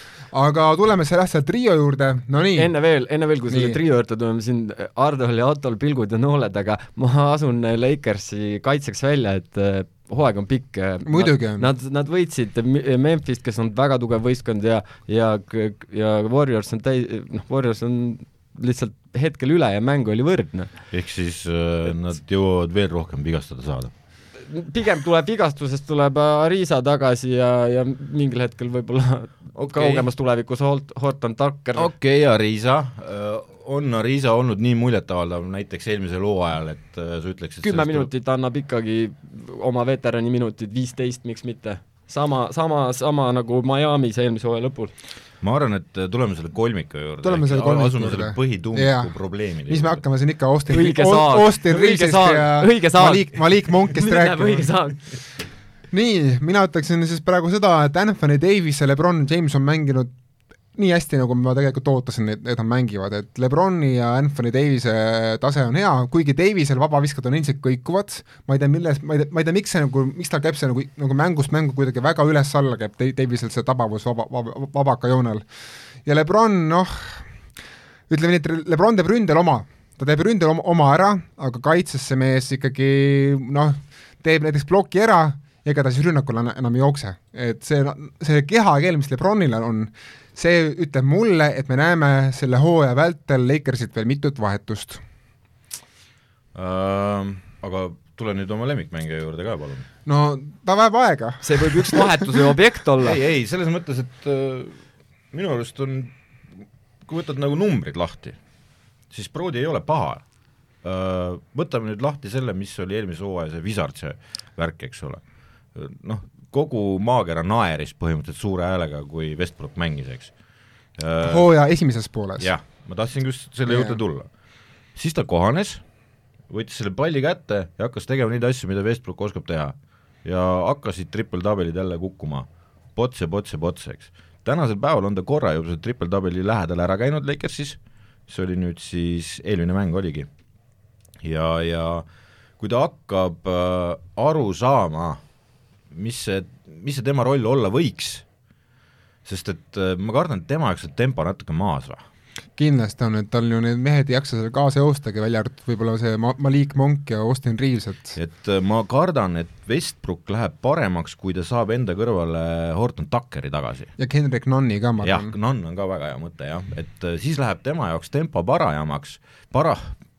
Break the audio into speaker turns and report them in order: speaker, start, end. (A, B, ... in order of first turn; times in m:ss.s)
0:00.3-0:02.8 A
0:02.6-0:20.8 B
0:03.5-0:03.8 A
0:11.1-0:11.7 A
0:20.9-0:23.9 C
0:24.4-0:31.9 B
0:29.6-0:30.1 C
0:31.7-0:38.1 C
0:37.6-0:44.9 B
0:45.4-0:50.0 C
0:47.2-0:55.1 A
0:50.7-0:55.2 B
0:55.9-1:00.1 A
1:00.7-1:15.4 A
1:16.0-1:17.3 A
1:18.1-1:35.0 A
1:36.6-1:39.9 C
1:40.1-1:42.5 A
1:41.4-1:43.2 B
1:43.0-1:46.1 C
1:47.0-1:48.4 C
1:49.1-1:50.2 C
1:50.8-1:55.2 C
1:55.8-2:00.4 C
2:01.0-2:01.5 C
2:01.2-2:02.5 A
2:02.4-2:04.3 C
2:03.7-2:04.0 A
2:05.0-2:05.8 C
2:06.5-2:20.3 C
2:21.2-2:22.1 C
2:22.6-2:25.2 C
2:25.9-2:28.2 C
2:29.2-2:32.0 C
2:32.6-2:38.2 A
2:38.1-2:43.9 C
2:44.0-2:45.3 A
2:45.0-2:50.0 C